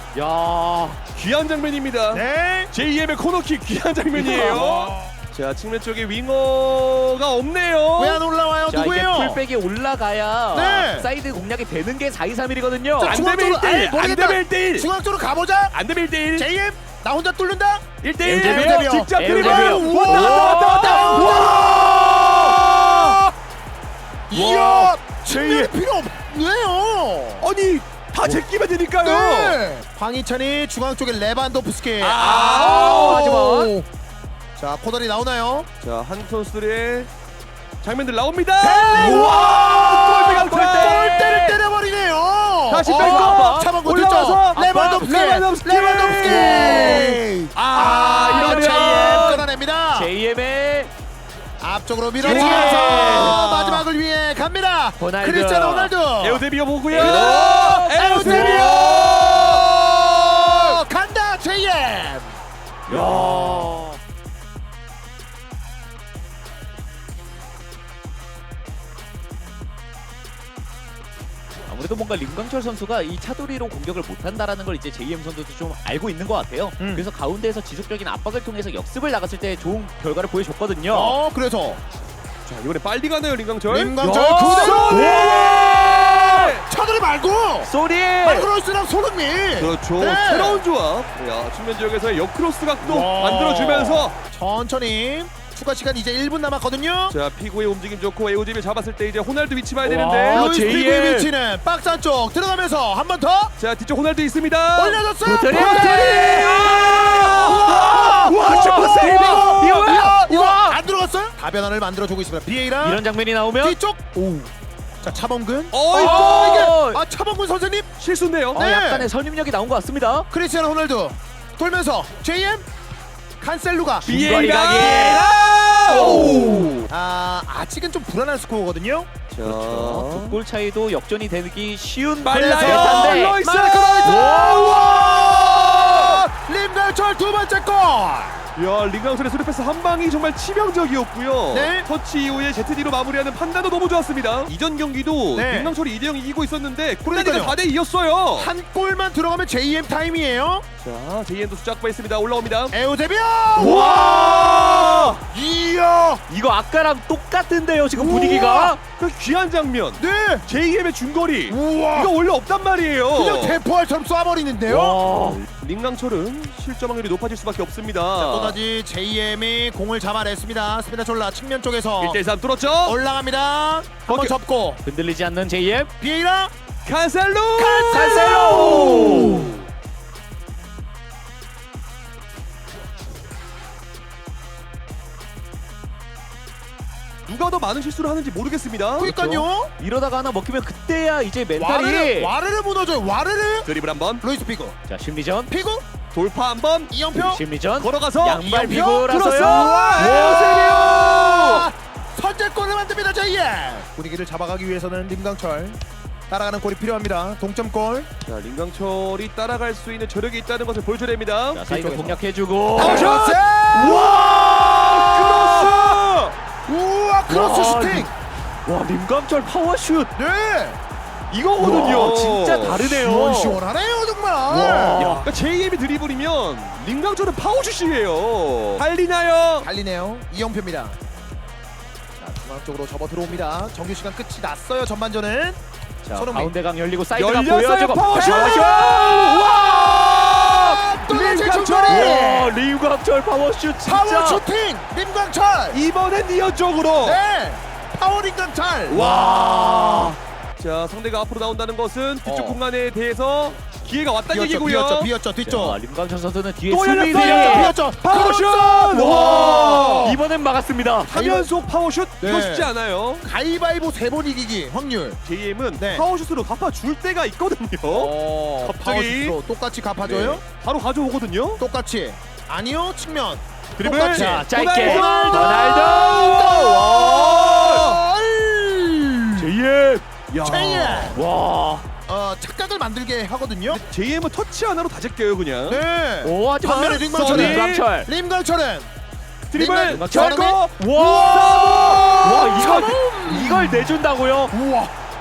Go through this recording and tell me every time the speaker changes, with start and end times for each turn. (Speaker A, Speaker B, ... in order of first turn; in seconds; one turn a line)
Speaker A: 0.1-1.0
Speaker B: 1.1-8.2
Speaker C: 2.1-2.7
Speaker C: 4.2-5.1
Speaker A: 4.2-4.6
Speaker C: 8.0-9.4
Speaker A: 8.7-13.2
Speaker C: 10.5-11.1
Speaker C: 13.0-15.8
Speaker B: 13.0-14.9
Speaker B: 15.7-16.5
Speaker C: 16.3-23.3
Speaker B: 18.0-23.2
Speaker A: 18.2-22.2
Speaker C: 24.3-27.5
Speaker A: 24.3-24.9
Speaker B: 25.3-25.7
Speaker B: 27.4-29.6
Speaker C: 29.0-33.9
Speaker B: 32.0-33.2
Speaker A: 32.2-33.7
Speaker C: 34.5-35.7
Speaker B: 35.8-37.1
Speaker B: 37.8-41.0
Speaker C: 38.6-50.1
Speaker A: 38.9-41.6
Speaker B: 42.7-49.3
Speaker A: 42.9-43.7
Speaker A: 44.5-45.1
Speaker A: 46.2-47.2
Speaker A: 48.1-50.9
Speaker C: 51.6-62.3
Speaker B: 52.2-53.8
Speaker A: 52.2-53.9
Speaker A: 55.0-55.9
Speaker B: 56.2-59.7
Speaker A: 56.9-58.9
Speaker B: 62.9-63.4
Speaker A: 62.9-64.0
Speaker A: 71.7-81.2
Speaker C: 76.8-77.1
Speaker C: 80.9-81.8
Speaker B: 82.4-86.6
Speaker C: 83.7-87.7
Speaker A: 84.0-86.3
Speaker A: 87.6-88.5
Speaker C: 88.2-90.6
Speaker B: 89.6-94.1
Speaker C: 92.8-97.2
Speaker B: 97.1-100.5
Speaker A: 99.8-101.3
Speaker C: 100.3-103.5
Speaker B: 103.6-109.9
Speaker C: 104.8-113.0
Speaker A: 105.2-110.8
Speaker A: 112.8-113.8
Speaker C: 113.6-117.9
Speaker B: 115.7-116.7
Speaker A: 115.9-117.0
Speaker B: 118.0-118.6
Speaker C: 118.5-119.1
Speaker A: 118.5-120.3
Speaker C: 120.3-122.7
Speaker C: 123.4-124.1
Speaker A: 124.0-125.2
Speaker B: 124.0-126.9
Speaker C: 124.7-129.1
Speaker B: 129.3-130.4
Speaker A: 129.4-133.4
Speaker B: 132.2-136.2
Speaker C: 132.3-138.4
Speaker A: 134.0-134.8
Speaker B: 138.6-148.5
Speaker C: 141.5-141.9
Speaker C: 145.3-145.7
Speaker C: 147.0-147.6
Speaker C: 148.3-150.6
Speaker B: 150.8-152.7
Speaker C: 152.7-156.2
Speaker B: 153.5-155.2
Speaker A: 156.3-158.8
Speaker C: 157.9-158.8
Speaker B: 159.0-163.6
Speaker C: 160.0-160.4
Speaker C: 161.5-162.1
Speaker C: 163.1-165.0
Speaker A: 164.7-165.4
Speaker B: 165.1-168.6
Speaker C: 168.2-172.2
Speaker B: 172.0-173.0
Speaker C: 172.8-174.8
Speaker B: 174.1-174.3
Speaker A: 174.8-175.9
Speaker C: 176.0-176.5
Speaker B: 176.8-179.2
Speaker C: 177.6-179.5
Speaker A: 177.9-179.6
Speaker B: 187.2-189.1
Speaker C: 189.0-189.7
Speaker A: 189.0-192.3
Speaker C: 191.5-193.7
Speaker B: 193.6-194.2
Speaker C: 194.2-194.8
Speaker A: 194.9-195.5
Speaker C: 195.5-195.8
Speaker B: 196.1-196.9
Speaker C: 196.9-197.4
Speaker A: 197.1-200.7
Speaker B: 197.8-198.4
Speaker C: 198.3-208.1
Speaker B: 199.1-201.7
Speaker B: 208.2-211.6
Speaker A: 211.5-213.2
Speaker C: 211.7-212.2
Speaker C: 212.8-214.2
Speaker B: 212.8-216.3
Speaker A: 213.8-215.7
Speaker C: 215.0-216.0
Speaker C: 216.7-218.1
Speaker A: 217.3-218.1
Speaker A: 218.7-220.1
Speaker C: 220.1-220.8
Speaker B: 221.3-222.9
Speaker A: 221.6-223.6
Speaker C: 222.8-225.0
Speaker A: 224.5-225.3
Speaker B: 225.0-229.7
Speaker C: 229.6-231.0
Speaker C: 232.2-235.6
Speaker A: 236.0-240.8
Speaker C: 236.1-236.5
Speaker B: 237.1-239.5
Speaker C: 238.1-242.5
Speaker B: 241.0-242.2
Speaker A: 241.9-244.4
Speaker C: 243.8-245.8
Speaker B: 245.7-247.2
Speaker C: 247.0-249.0
Speaker B: 248.9-255.1
Speaker A: 248.9-250.2
Speaker C: 252.2-252.6
Speaker C: 254.3-255.8
Speaker A: 255.4-257.7
Speaker B: 256.7-260.2
Speaker C: 257.1-260.2
Speaker A: 258.9-261.1
Speaker B: 261.1-263.2
Speaker C: 261.1-261.5
Speaker C: 262.2-262.7
Speaker C: 263.2-265.2
Speaker B: 265.2-269.4
Speaker C: 265.8-266.1
Speaker C: 267.9-270.4
Speaker B: 270.0-271.6
Speaker C: 271.6-279.5
Speaker B: 273.8-278.0
Speaker A: 274.1-276.6
Speaker A: 279.4-280.0
Speaker B: 280.3-281.1
Speaker C: 280.4-281.2
Speaker A: 281.1-281.9
Speaker C: 282.1-283.8
Speaker B: 283.7-285.8
Speaker C: 285.6-288.9
Speaker A: 286.2-288.1
Speaker B: 287.1-287.9
Speaker B: 289.5-292.3
Speaker C: 289.5-294.0
Speaker A: 289.9-291.6
Speaker A: 292.2-294.5
Speaker C: 294.5-294.9